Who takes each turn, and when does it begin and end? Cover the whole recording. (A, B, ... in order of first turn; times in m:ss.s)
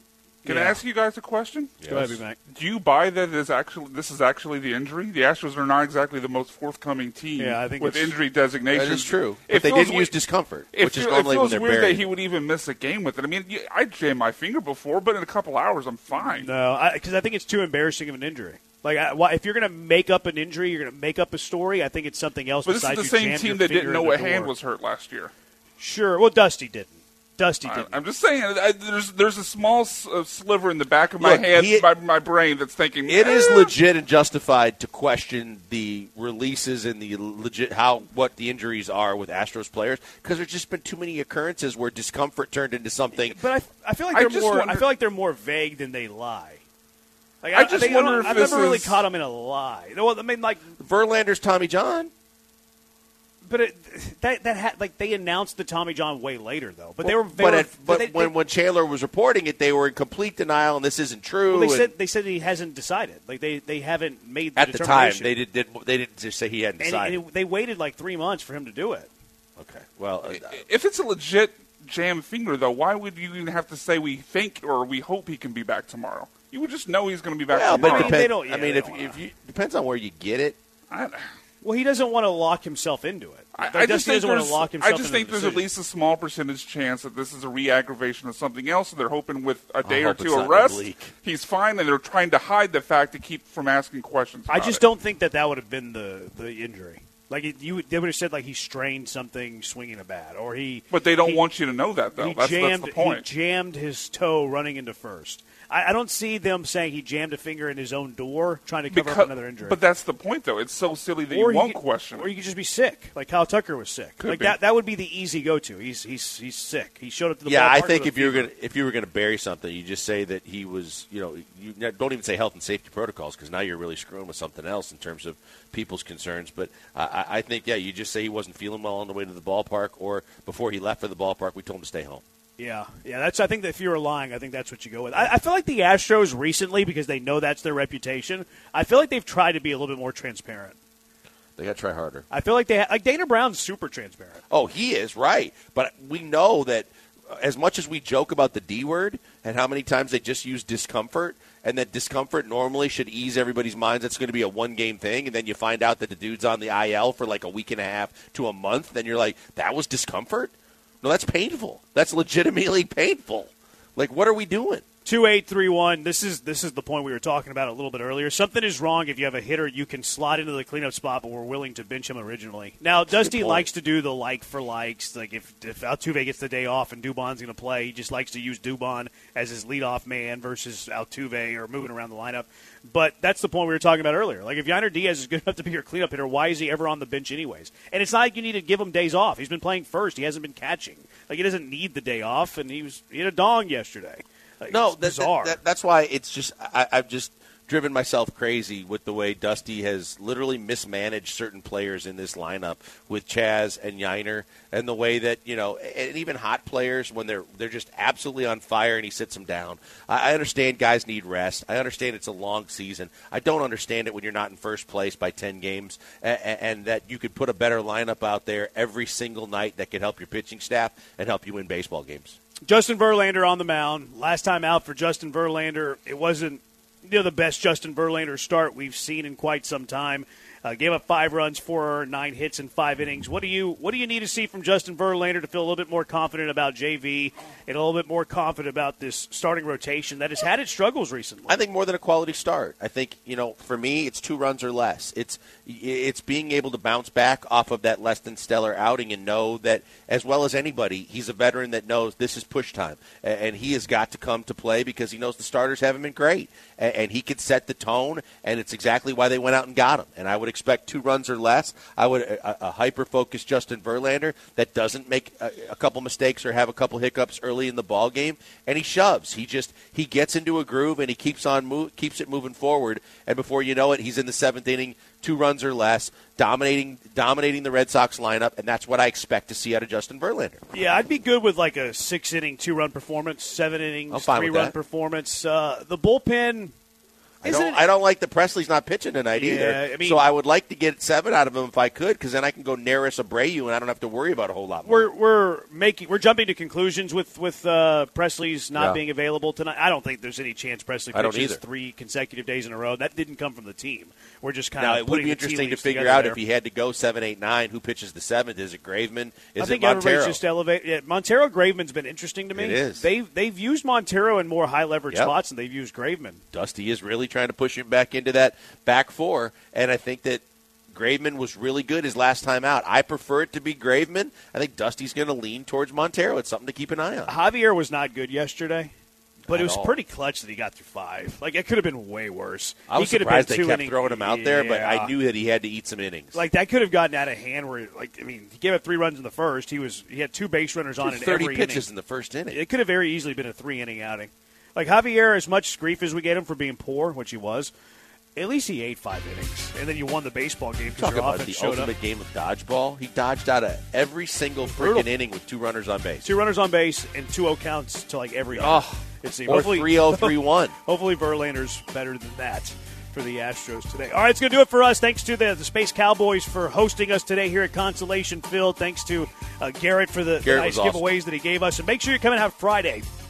0:00.4-0:00.8 A
0:00.4-0:01.7 B
0:01.8-0:02.2 C
0:01.9-0:02.4 A
0:02.5-0:10.1 B
0:07.4-0:08.1 A
0:08.7-0:12.0 C
0:10.7-0:16.5 B
0:16.2-0:24.5 A
0:22.6-0:25.3 B
0:25.8-0:28.0 A
0:27.6-0:33.7 B
0:31.2-0:31.9 C
0:33.0-0:43.4 C
0:43.1-0:46.6 A
0:44.1-0:44.9 B
0:47.4-0:50.6 A
0:47.5-0:49.0 B
0:48.3-0:48.6 C
0:50.8-0:52.1 C
0:53.4-0:58.3 A
0:57.0-1:01.9 C
1:01.5-1:05.3 A
1:04.6-1:07.2 C
1:06.8-1:09.1 A
1:09.6-1:10.6 C
1:10.2-1:18.3 B
1:17.5-1:20.6 C
1:17.7-1:19.2 A
1:20.9-1:21.2 B
1:21.6-1:25.7 A
1:23.5-1:34.8 B
1:29.8-1:31.1 C
1:34.5-1:41.5 A
1:40.9-1:43.2 B
1:42.2-1:49.8 A
1:48.9-1:52.3 B
1:51.3-1:58.5 A
1:54.2-1:54.5 B
1:57.4-2:12.2 C
2:12.6-2:20.8 A
2:21.6-2:22.2 C
2:22.3-2:24.4 A
2:24.5-2:44.8 C
2:45.0-3:15.6 A
2:53.2-2:53.7 C
3:14.7-3:42.4 C
3:42.6-4:01.6 A
4:01.5-4:40.6 C
4:40.7-4:46.7 A
4:44.1-4:44.7 C
4:47.4-4:47.8 A
4:47.4-4:55.1 C
4:49.3-4:50.2 A
4:54.8-5:06.4 A
4:58.7-4:59.0 C
5:01.1-5:01.6 C
5:04.8-5:10.4 C
5:09.6-5:16.4 A
5:12.5-5:13.1 C
5:16.5-5:27.3 C
5:27.3-5:28.9 A
5:29.4-5:30.0 C
5:29.5-5:35.1 A
5:32.9-5:36.4 C
5:36.3-5:41.8 A
5:41.0-5:42.6 C
5:42.5-5:47.7 A
5:48.4-5:51.9 A
5:50.9-5:56.3 C
5:54.7-5:55.1 A
5:56.2-6:13.0 A
5:58.5-6:00.7 C
6:10.4-6:11.1 C